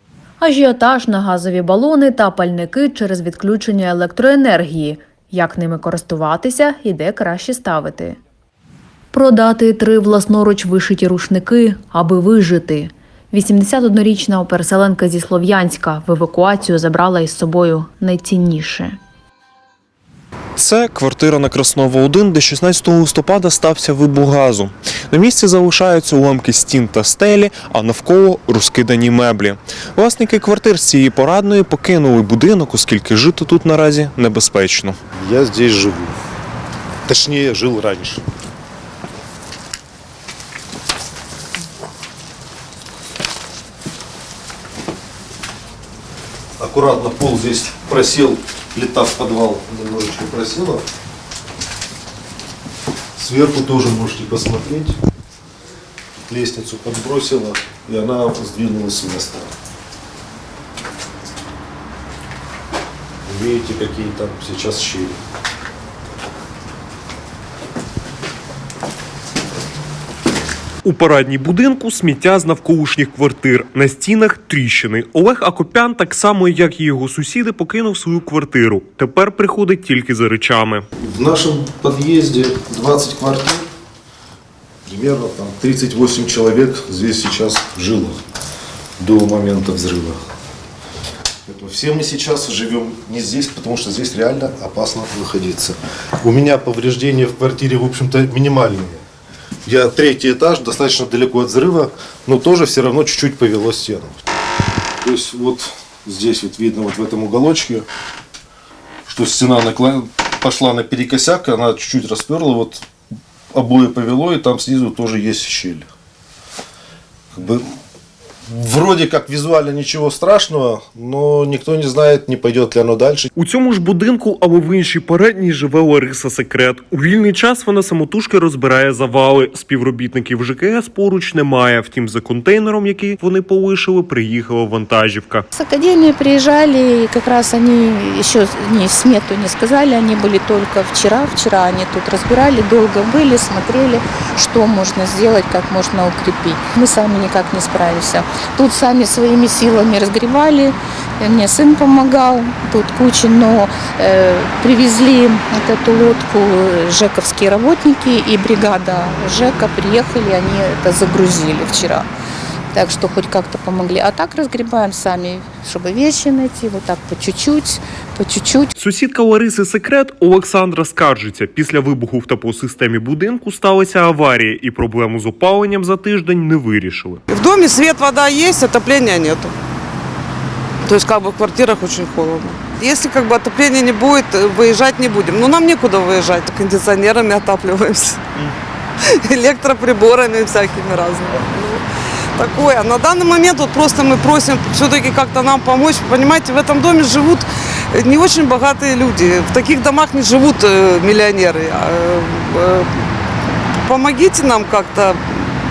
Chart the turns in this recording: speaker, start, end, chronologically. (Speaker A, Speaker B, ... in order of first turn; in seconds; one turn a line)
Speaker A: 0.4-8.2
Speaker A: 9.1-19.0
Speaker B: 20.6-24.6
Speaker B: 25.3-27.4
Speaker B: 28.7-29.2
Speaker B: 30.0-32.8
Speaker C: 35.2-36.1
Speaker C: 37.1-38.2
Speaker C: 46.6-50.9
Speaker C: 53.2-55.0
Speaker C: 56.3-59.5
Speaker C: 63.3-65.2
Speaker B: 70.8-80.8
Speaker C: 81.0-83.7
Speaker C: 84.9-88.2
Speaker C: 89.0-90.2
Speaker C: 91.5-99.0
Speaker C: 99.7-104.2
Speaker C: 105.0-107.9
Speaker C: 109.1-112.8
Speaker C: 113.5-115.9
Speaker C: 117.3-117.7
Speaker C: 118.5-123.3
Speaker B: 123.4-135.4
Speaker D: 135.5-162.1
Speaker D: 162.7-168.7
Speaker B: 168.8-177.2
Speaker E: 177.3-179.5
Speaker E: 180.9-188.2
Speaker E: 189.3-191.8
Speaker E: 192.4-202.9
Speaker E: 203.9-205.6